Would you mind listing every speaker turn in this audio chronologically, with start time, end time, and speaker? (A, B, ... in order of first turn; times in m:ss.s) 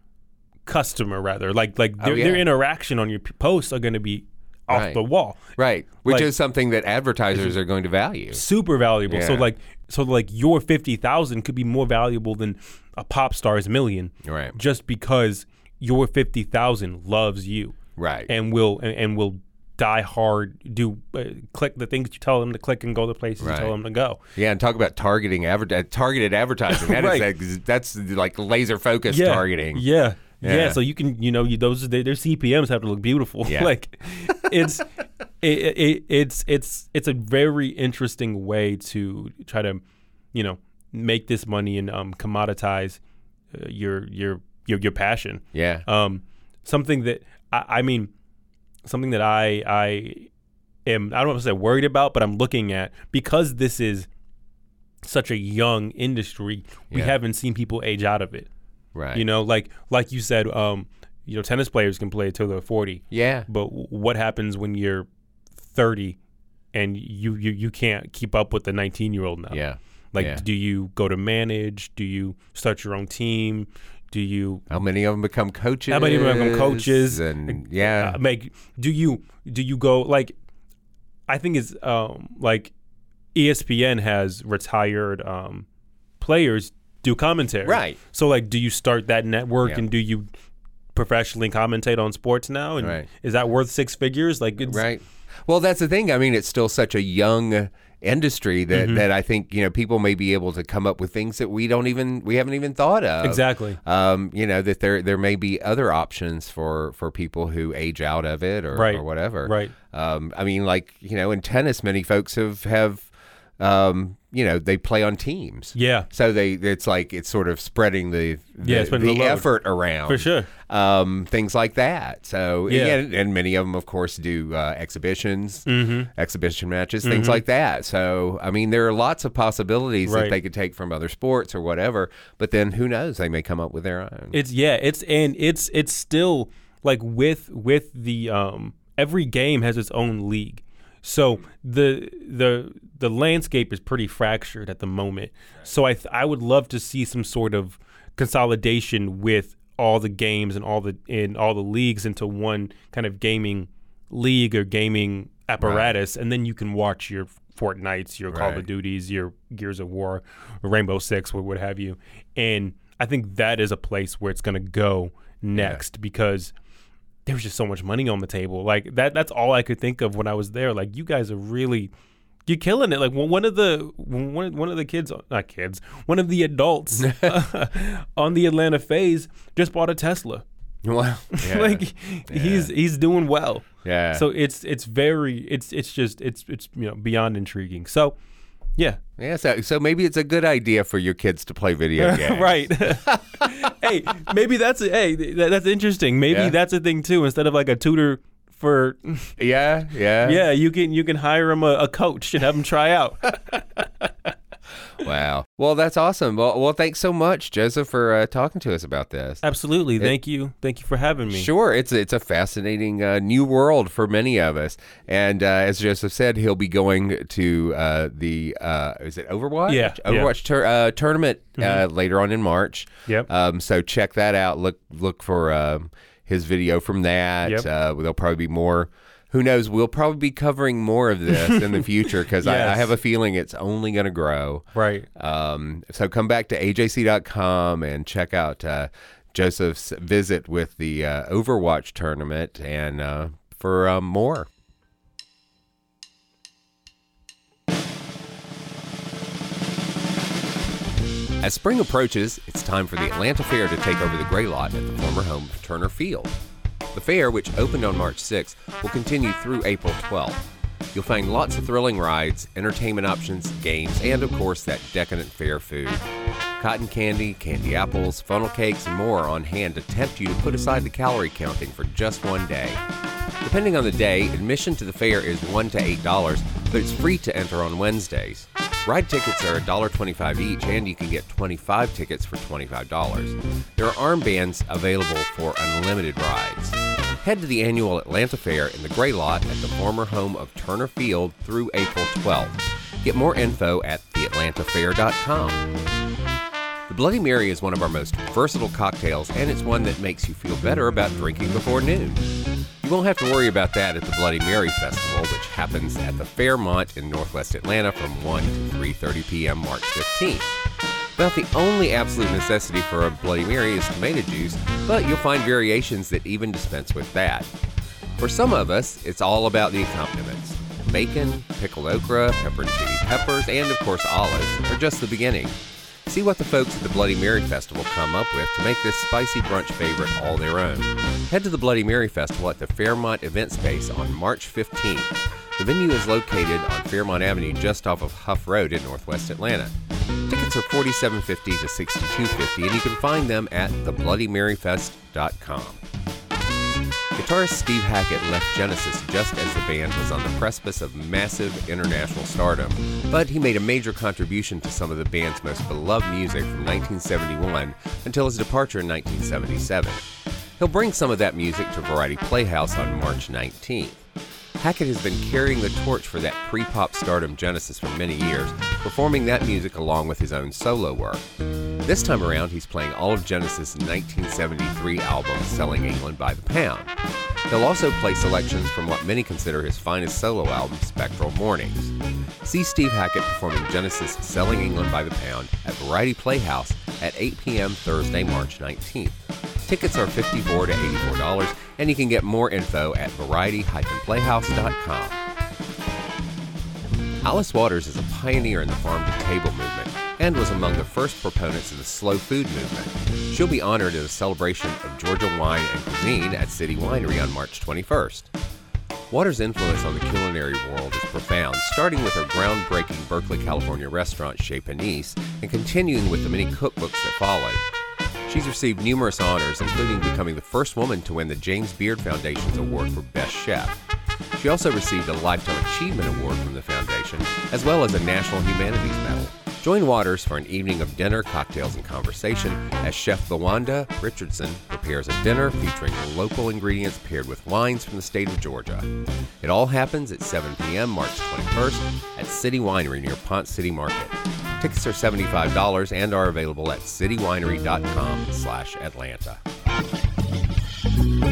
0:00.7-0:05.4 A
0:02.0-0:02.4 B
0:04.7-0:08.4 B
0:06.0-0:06.3 A
0:08.3-0:17.8 A
0:09.1-0:09.5 B
0:14.2-0:14.6 B
0:18.0-0:18.3 B
0:18.3-0:24.2 A
0:23.4-0:23.7 B
0:24.4-0:29.8 B
0:26.7-0:27.3 A
0:29.1-0:34.9 A
0:30.4-0:30.8 B
0:33.4-0:33.7 B
0:34.3-0:34.7 B
0:35.4-0:39.8 A
0:40.3-0:43.0 A
0:43.5-0:48.1 A
0:45.5-0:45.9 B
0:48.8-0:50.3 A
0:50.9-0:54.1 A
0:55.0-0:58.5 A
0:58.9-0:59.2 B
0:59.1-1:05.1 A
1:03.1-1:03.5 B
1:05.6-1:06.2 A
1:06.7-1:09.6 A
1:09.5-1:10.4 B
1:10.1-1:14.6 A
1:14.7-1:18.2 B
1:15.9-1:20.3 A
1:21.3-1:22.7 A
1:23.4-1:25.7 A
1:26.2-1:30.3 A
1:27.6-1:28.0 B
1:31.0-1:34.8 A
1:32.8-1:33.1 B
1:34.6-2:14.4 B
1:38.7-1:39.0 A
1:43.2-1:43.8 A
1:48.7-1:49.7 A
1:55.8-1:56.1 A
1:58.6-1:59.5 A
2:00.1-2:00.5 A
2:02.7-2:03.0 A
2:05.7-2:06.1 A
2:07.0-2:07.4 A
2:10.0-2:10.4 A
2:14.3-2:46.5 A
2:35.6-2:35.9 B
2:38.3-2:38.7 B
2:45.6-2:45.8 B
2:47.3-2:51.9 A
2:52.5-3:00.4 A
2:57.0-2:57.4 B
3:00.8-3:02.7 B
3:01.3-3:08.2 A
3:03.8-3:04.3 B
3:09.2-3:13.7 B
3:12.0-3:19.3 A
3:16.3-3:16.6 B
3:19.4-3:20.4 B
3:20.2-3:24.1 A
3:25.0-3:29.4 B
3:29.4-3:31.5 A
3:31.3-4:04.5 B
3:39.7-3:40.3 A
3:41.6-3:41.8 A
3:51.3-3:51.8 A
3:52.4-3:52.9 A
3:54.7-3:55.1 A
4:11.4-4:16.4 B
4:16.9-4:26.0 B
4:26.6-4:32.8 B
4:33.4-4:55.6 B
4:56.9-5:02.3 B
5:02.8-5:10.5 B
5:11.2-5:17.5 B
5:18.2-5:39.8 B
5:40.3-5:45.8 B
5:47.2-6:00.0 B
6:00.6-6:04.0 B
6:04.6-6:11.2 B
6:11.8-6:16.9 B
6:17.5-6:35.2 B
6:37.2-6:48.3 B
6:49.1-6:57.6 B
6:58.3-7:03.8 B
7:04.4-7:18.9 B
7:19.4-7:29.4 B